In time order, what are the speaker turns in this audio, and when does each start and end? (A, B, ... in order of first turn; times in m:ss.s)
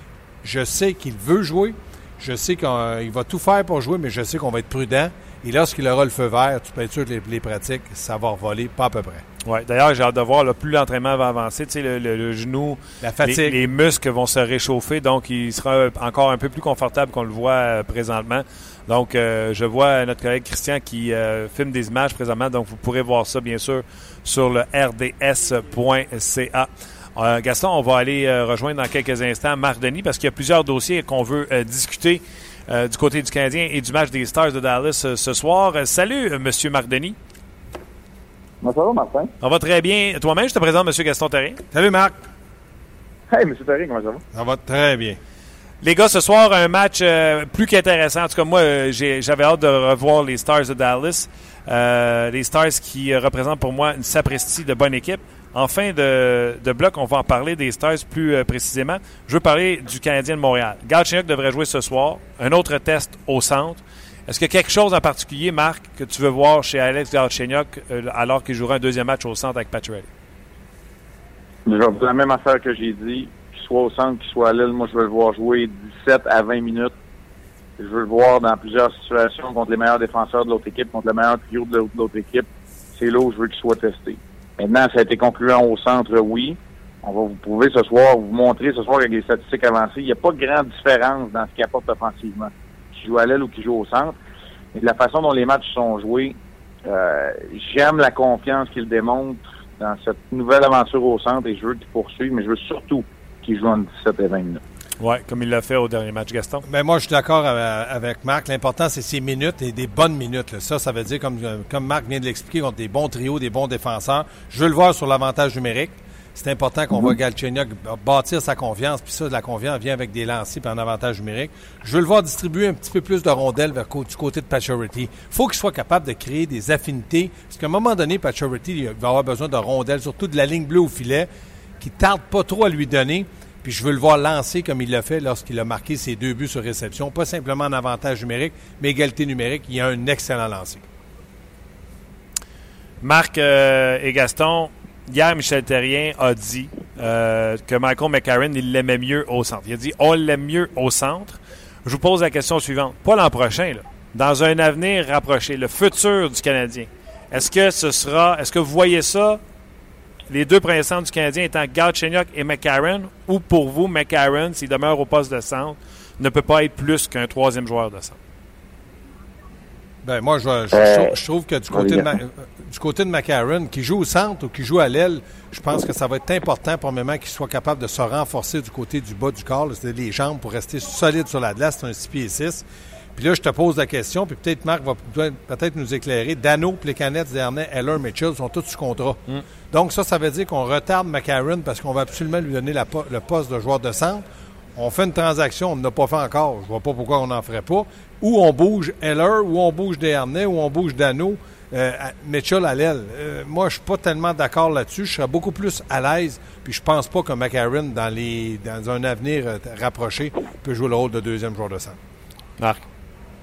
0:00.4-0:09.2 A
0:09.4-0:37.2 B
0:13.0-0:13.6 A
0:38.6-0:39.3 C
0:39.4-0:41.6 B
0:41.7-0:42.1 A
0:43.3-0:44.2 C
0:44.3-0:45.2 A
0:45.8-1:10.1 B
1:11.6-1:16.9 C
1:17.8-1:34.2 C
1:34.7-1:44.6 C
1:45.0-1:46.6 B
1:46.6-2:11.3 A
2:11.8-2:20.8 A
2:23.0-2:39.4 B
2:40.3-2:48.2 B
2:50.0-3:02.6 A
2:50.7-2:51.1 C
2:51.7-2:52.1 C
3:03.2-3:14.2 A
3:14.7-3:32.0 A